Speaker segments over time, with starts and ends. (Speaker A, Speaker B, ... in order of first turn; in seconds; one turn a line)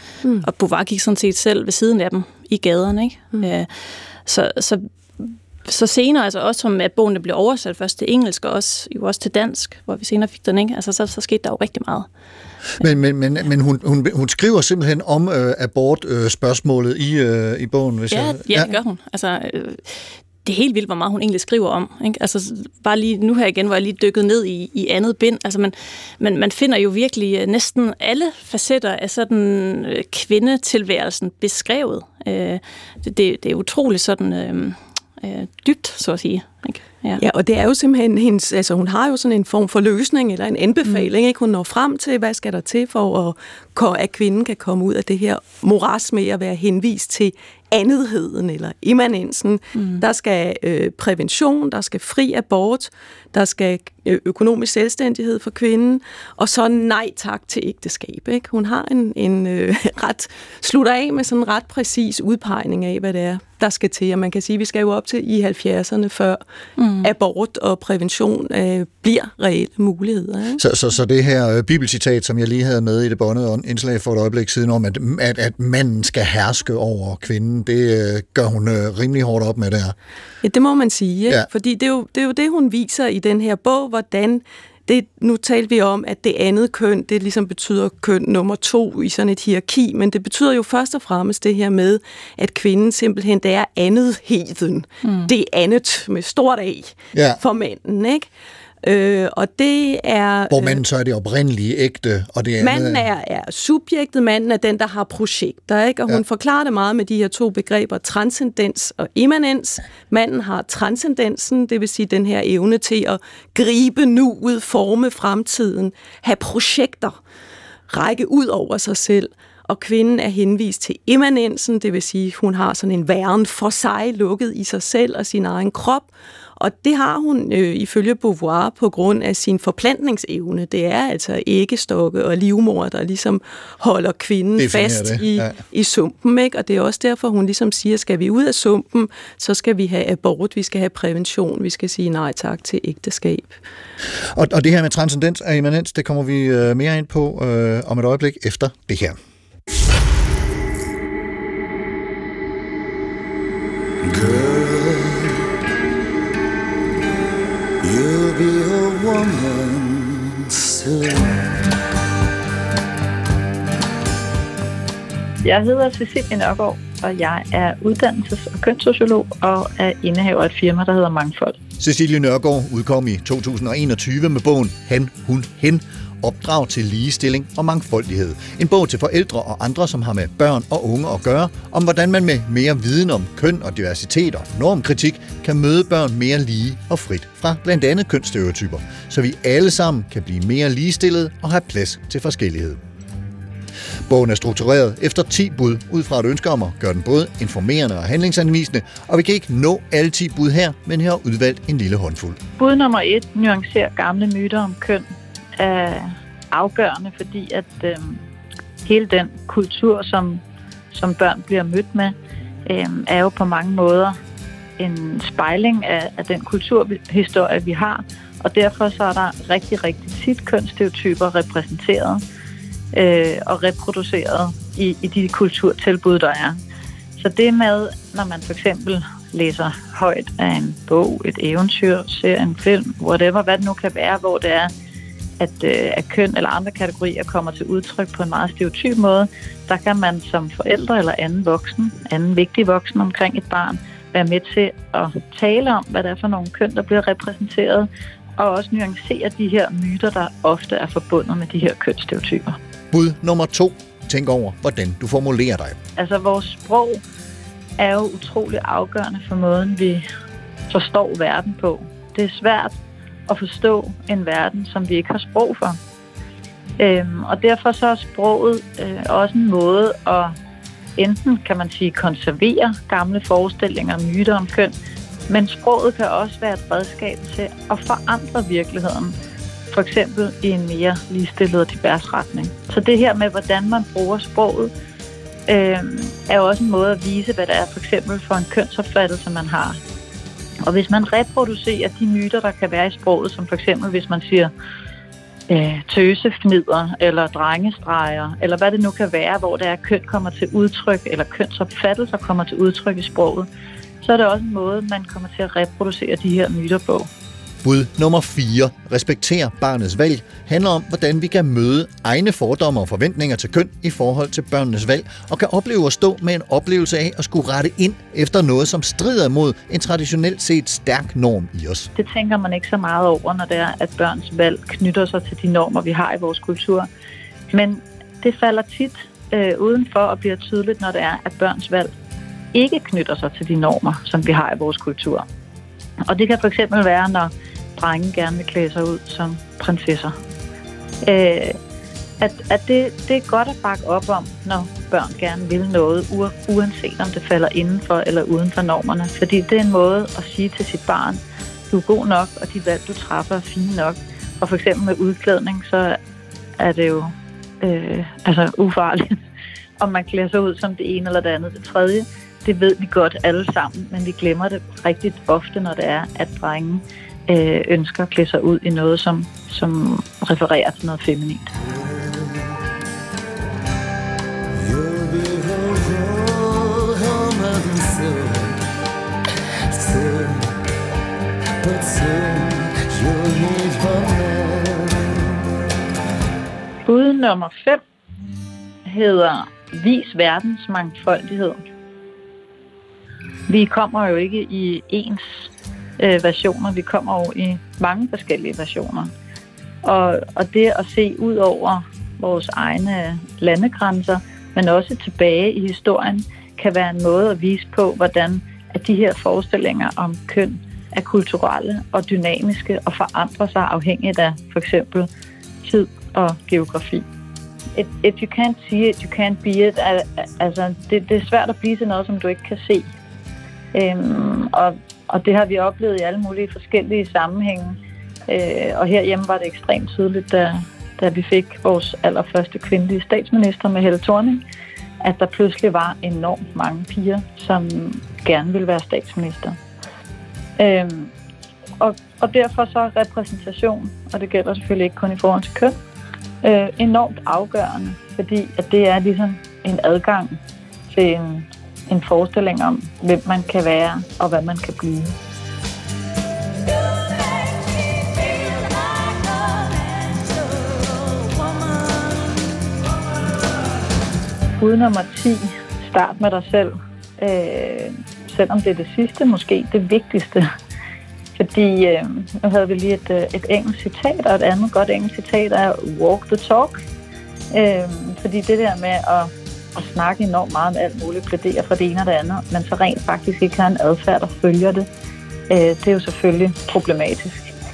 Speaker A: 0.4-3.7
Speaker A: 4.3-12.1
Speaker B: 12.8-18.7
Speaker A: 18.1-19.9
Speaker A: 20.4-37.2
Speaker C: 37.2-66.4
Speaker A: 49.8-50.0
Speaker A: 66.8-67.1
Speaker C: 67.0-70.6
Speaker B: 70.6-80.0
Speaker C: 80.4-98.3
Speaker B: 97.1-97.4
Speaker C: 98.8-100.8
Speaker B: 100.5-103.0
Speaker C: 102.6-117.2
Speaker C: 117.9-143.6
Speaker B: 134.6-135.5
Speaker B: 144.3-149.2
Speaker D: 154.1-155.3
Speaker D: 157.8-161.3
Speaker E: 165.4-171.6
Speaker B: 171.8-192.8
Speaker B: 194.1-202.4
Speaker E: 202.6-205.1
Speaker E: 205.6-208.2
Speaker E: 208.8-212.2
Speaker E: 212.7-214.2
Speaker E: 214.8-222.2
Speaker E: 222.9-226.6
Speaker E: 227.2-234.7
Speaker E: 235.4-252.6
Speaker B: 252.9-255.8
Speaker E: 256.0-257.0
Speaker E: 257.8-260.1
Speaker E: 260.7-262.8
Speaker E: 263.3-265.8
Speaker E: 266.8-270.4
Speaker E: 271.0-274.7
Speaker E: 275.3-279.1
Speaker E: 279.7-284.7
Speaker E: 285.5-289.8
Speaker E: 290.7-294.5
Speaker E: 295.5-303.5
Speaker E: 304.0-307.1
Speaker B: 307.6-321.9
Speaker E: 322.0-326.9
Speaker E: 327.5-331.9
Speaker E: 332.5-335.2
Speaker E: 336.1-340.1
Speaker E: 341.1-341.6
Speaker E: 342.2-356.0
Speaker E: 356.6-359.1
Speaker E: 359.8-371.5
Speaker D: 371.7-372.4
Speaker D: 374.6-378.6
Speaker D: 379.7-380.6
Speaker D: 381.6-385.2
Speaker E: 386.9-387.8
Speaker E: 388.9-391.6
Speaker E: 393.5-395.2
Speaker E: 396.0-399.1
Speaker E: 399.8-415.1
Speaker E: 415.6-417.0
Speaker E: 417.8-422.9
Speaker E: 423.7-434.4
Speaker E: 435.0-439.6
Speaker E: 440.6-441.1
Speaker E: 441.8-445.8
Speaker E: 446.4-450.4
Speaker E: 450.9-455.1
Speaker E: 464.6-470.5
Speaker E: 471.4-476.8
Speaker E: 477.5-484.9
Speaker E: 485.5-487.5